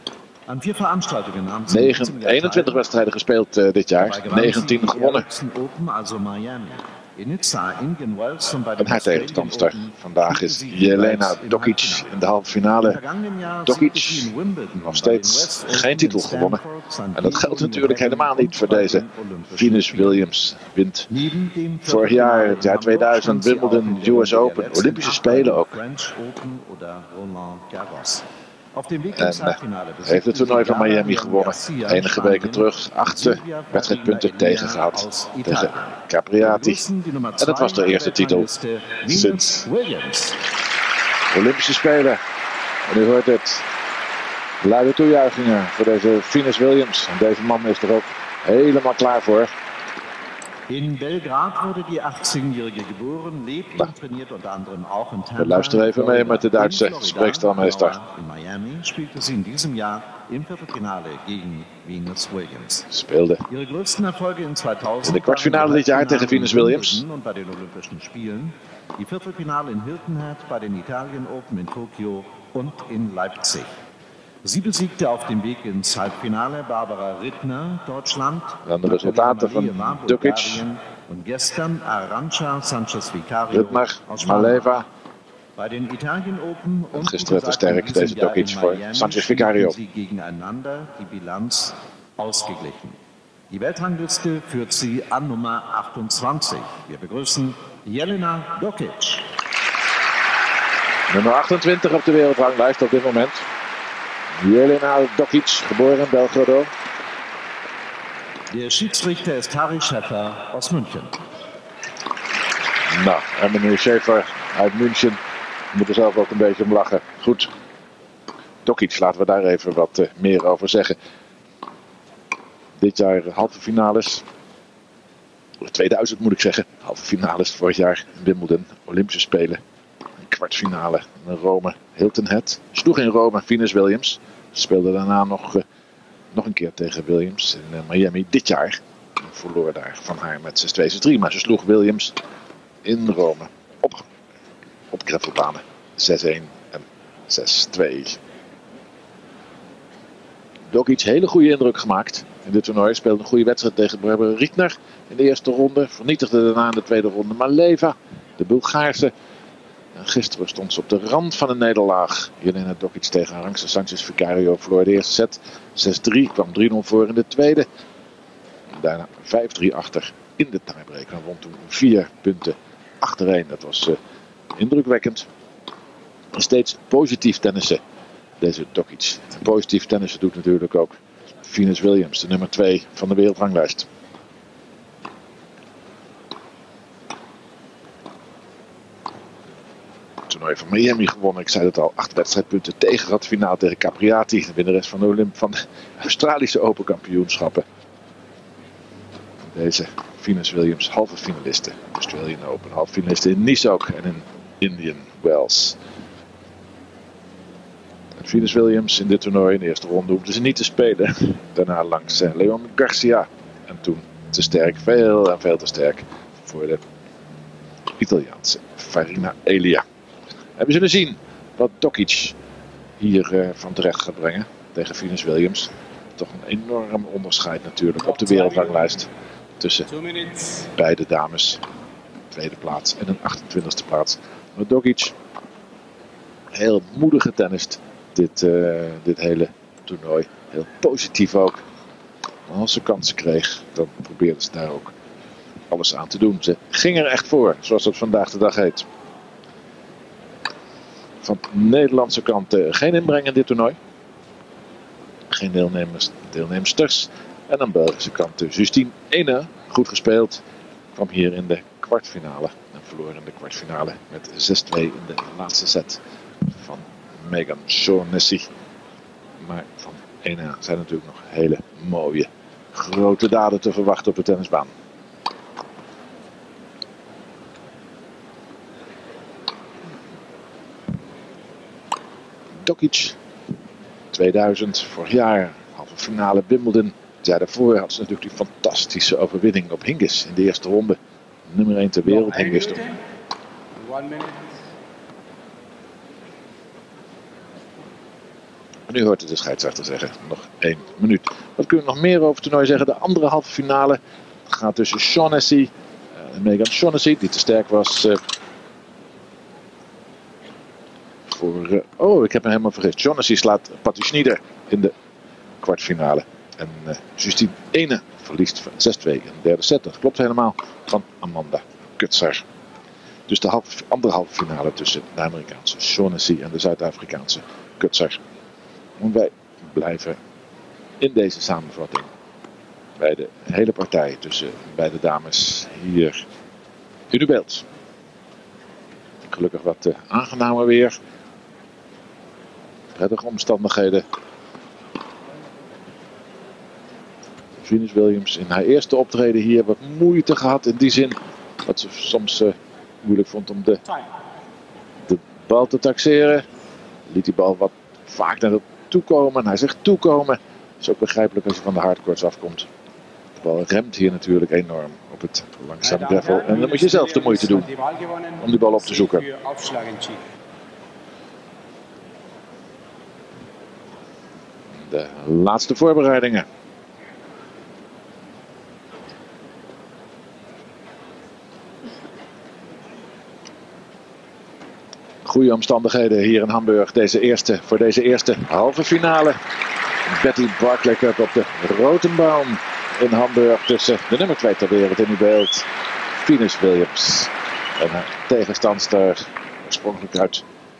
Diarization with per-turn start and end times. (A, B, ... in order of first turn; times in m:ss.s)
0:00.5-0:02.8 A
0:01.7-0:05.2 B
0:04.0-0:12.1 A
0:08.8-0:13.0 B
0:12.8-0:20.3 A
0:13.7-0:16.6 B
0:17.1-0:21.1 B
0:21.1-0:40.4 A
0:21.9-0:25.8 B
0:29.2-0:36.8 B
0:37.4-0:38.5 B
0:39.0-0:39.6 B
0:41.3-0:42.2 B
0:42.9-0:43.7 B
0:44.6-0:49.5 B
0:50.7-1:02.9 A
0:55.4-0:58.0 B
1:02.9-1:03.4 B
1:03.5-1:13.7 A
1:05.0-1:07.0 B
1:14.4-1:24.7 A
1:18.6-1:20.6 B
1:23.5-1:24.9 B
1:25.6-1:39.3 A
1:26.9-1:29.8 B
1:41.1-1:43.5 B
1:44.4-1:46.7 B
1:48.5-1:51.2 A
1:52.9-1:55.2 B
1:55.7-1:57.5 B
1:58.6-2:01.0 B
2:02.8-2:04.2 B
2:05.6-2:09.6 B
2:10.2-2:15.6 B
2:16.3-2:22.2 B
2:22.8-2:24.1 B
2:24.9-2:28.2 B
2:30.7-2:39.1 B
2:39.9-2:47.7 B
2:48.7-2:54.0 B
2:54.6-2:55.3 B
2:56.3-2:57.8 B
2:58.4-3:03.9 B
3:10.3-3:17.6 B
3:19.4-3:25.8 B
3:28.2-3:36.8 B
3:38.0-3:39.8 B
3:40.6-3:42.4 B
3:43.0-3:49.1 B
3:47.9-3:49.0 C
3:49.6-3:49.9 B
3:49.9-3:50.7 C
3:50.8-3:51.6 B
3:52.3-3:55.2 B
3:56.5-4:01.6 B
4:02.5-4:04.9 B
4:05.7-4:08.9 B
4:11.2-4:13.8 B
4:15.3-4:20.4 B
4:20.9-4:28.5 B
4:29.4-4:34.7 B
4:42.6-4:43.2 B
4:44.1-4:52.8 B
4:52.1-4:53.0 C
4:53.7-4:54.7 C
4:58.9-5:08.2 B
5:11.3-5:14.9 B
5:15.6-5:22.4 B
5:23.3-5:28.2 B
5:29.0-5:30.2 B
5:31.0-5:32.1 B
5:33.0-5:36.2 B
5:37.1-5:37.6 B
5:39.3-5:40.9 B
5:42.9-5:44.0 B
5:47.6-5:53.8 B
5:55.1-5:56.5 B
5:57.1-6:02.7 B
6:03.4-6:07.7 B
6:05.8-6:10.2 C
6:08.4-6:09.2 B
6:14.7-6:16.5 B
6:25.2-6:29.4 B
6:30.1-6:40.4 B